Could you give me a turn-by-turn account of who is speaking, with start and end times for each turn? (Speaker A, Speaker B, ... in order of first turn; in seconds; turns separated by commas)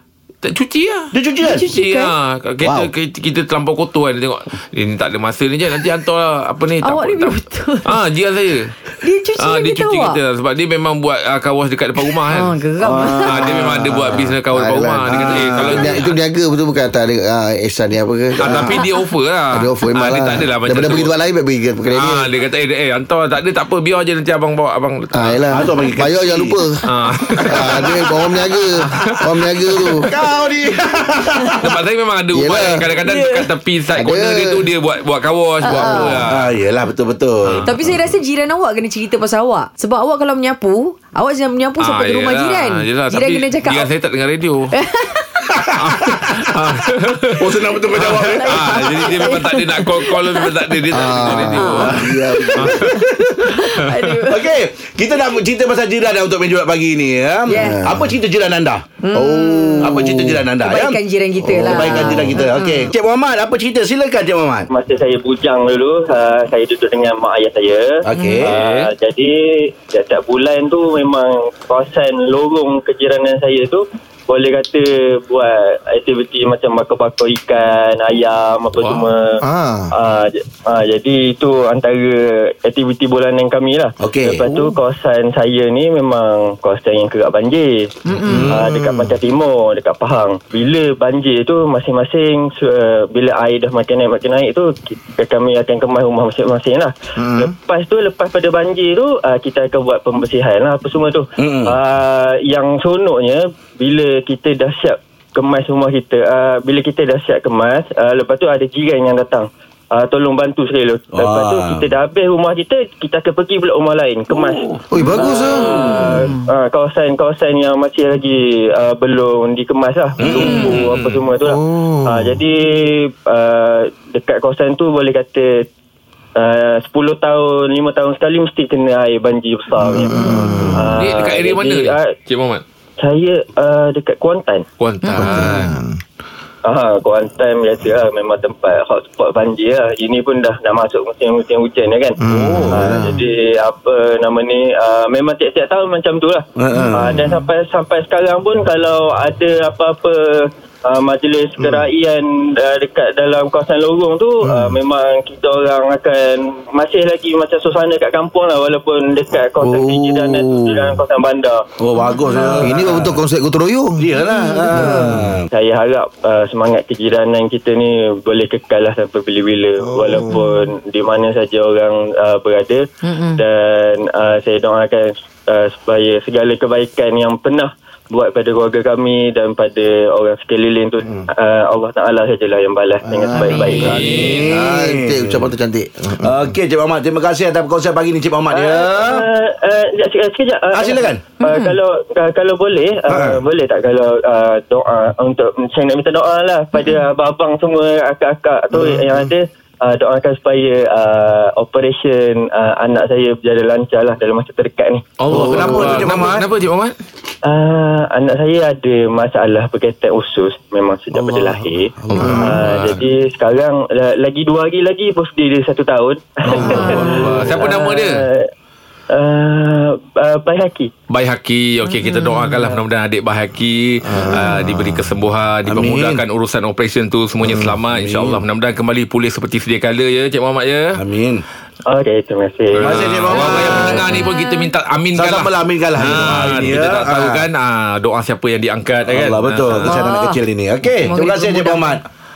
Speaker A: 0.4-1.1, Speaker B: 1.1-1.6, Speaker C: 1.4-2.1, Speaker A: 1.7-8.7, Speaker B: 2.6-2.9, Speaker C: 6.8-8.0, Speaker C: 9.0-10.2, Speaker A: 9.3-12.6, Speaker C: 12.3-13.5, Speaker B: 12.8-14.2, Speaker A: 13.2-16.1, Speaker D: 13.9-18.7, Speaker B: 15.1-16.0, Speaker A: 18.4-21.1, Speaker B: 18.4-18.7, Speaker C: 18.6-19.0, Speaker D: 19.5-22.3, Speaker A: 21.9-25.4, Speaker D: 25.1-26.8, Speaker B: 25.5-26.6, Speaker A: 26.8-27.9, Speaker D: 27.4-30.1, Speaker B: 27.6-28.1, Speaker B: 29.9-31.7, Speaker A: 31.6-36.5, Speaker D: 32.3-32.8, Speaker B: 33.0-33.5, Speaker D: 34.0-34.7, Speaker C: 35.6-36.2, Speaker B: 36.3-37.7, Speaker C: 37.6-43.9, Speaker A: 41.8-44.7, Speaker C: 44.7-45.5, Speaker A: 45.8-53.0, Speaker B: 47.4-48.8, Speaker C: 48.1-51.9, Speaker D: 50.9-52.9, Speaker B: 51.8-53.4, Speaker C: 52.9-54.6, Speaker A: 53.8-54.2, Speaker B: 54.2-58.8, Speaker C: 57.5-57.9, Speaker D: 57.5-58.2, Speaker C: 59.0-62.9, Speaker D: 59.1-60.4, Speaker B: 59.8-61.0, Speaker D: 61.4-62.4, Speaker B: 61.5-64.7, Speaker E: 64.7-79.4, Speaker B: 68.0-68.5, Speaker C: 68.1-68.4, Speaker A: 68.4-68.9, Speaker A: 78.8-79.1, Speaker D: 79.4-79.9, Speaker E: 79.9-87.9, Speaker B: 84.0-84.7, Speaker C: 88.0-88.5, Speaker D: 88.3-89.1, Speaker B: 88.3-88.7, Speaker E: 88.5-125.7, Speaker D: 97.2-97.5, Speaker B: 101.4-101.8, Speaker B: 111.1-111.9, Speaker B: 114.3-114.8, Speaker D: 114.9-115.7, Speaker C: 115.0-116.5, Speaker B: 120.2-120.6, Speaker A: 120.3-121.2, Speaker C: 120.3-120.8, Speaker D: 121.4-122.4, Speaker E: 126.3-132.1, Speaker D: 129.8-131.0, Speaker C: 130.1-130.7, Speaker A: 130.9-132.6, Speaker E: 133.0-134.7, Speaker A: 134.8-135.7, Speaker C: 135.0-135.5, Speaker D: 135.2-136.0, Speaker E: 136.6-142.2, Speaker D: 142.2-143.1, Speaker B: 142.2-142.8, Speaker E: 142.7-146.4, Speaker C: 142.8-143.2, Speaker B: 146.6-147.2, Speaker E: 146.9-161.6, Speaker D: 154.4-154.8, Speaker D: 159.6-161.0, Speaker B: 161.8-163.2, Speaker C: 161.9-162.7, Speaker D: 162.6-164.1, Speaker B: 164.0-165.5, Speaker C: 164.2-165.2, Speaker D: 164.7-165.3, Speaker E: 165.5-172.8, Speaker D: 169.9-170.4, Speaker C: 173.0-173.4, Speaker E: 173.4-183.9, Speaker D: 183.1-186.5, Speaker C: 183.3-183.8, Speaker A: 183.7-184.5, Speaker B: 183.9-185.4, Speaker B: 186.2-189.2, Speaker E: 188.5-205.1, Speaker B: 190.7-191.3, Speaker C: 191.4-191.8, Speaker B: 193.1-193.4, Speaker C: 196.8-197.0, Speaker A: 205.2-206.9, Speaker B: 205.3-206.4, Speaker E: 207.4-218.5, Speaker B: 211.1-213.0, Speaker D: 212.2-212.7, Speaker D: 216.5-217.0, Speaker A: 216.5-218.2, Speaker C: 216.6-217.1, Speaker B: 216.8-217.6, Speaker E: 219.1-220.9, Speaker A: 221.1-231.0, Speaker C: 221.9-222.8, Speaker D: 224.1-225.1, Speaker B: 225.7-226.2, Speaker B: 227.4-228.4, Speaker B: 230.9-231.4, Speaker E: 231.9-233.5, Speaker A: 232.8-239.9, Speaker B: 232.8-234.1, Speaker C: 234.1-234.7, Speaker B: 235.1-237.4, Speaker B: 239.1-242.0, Speaker C: 239.8-240.4, Speaker C: 241.0-242.0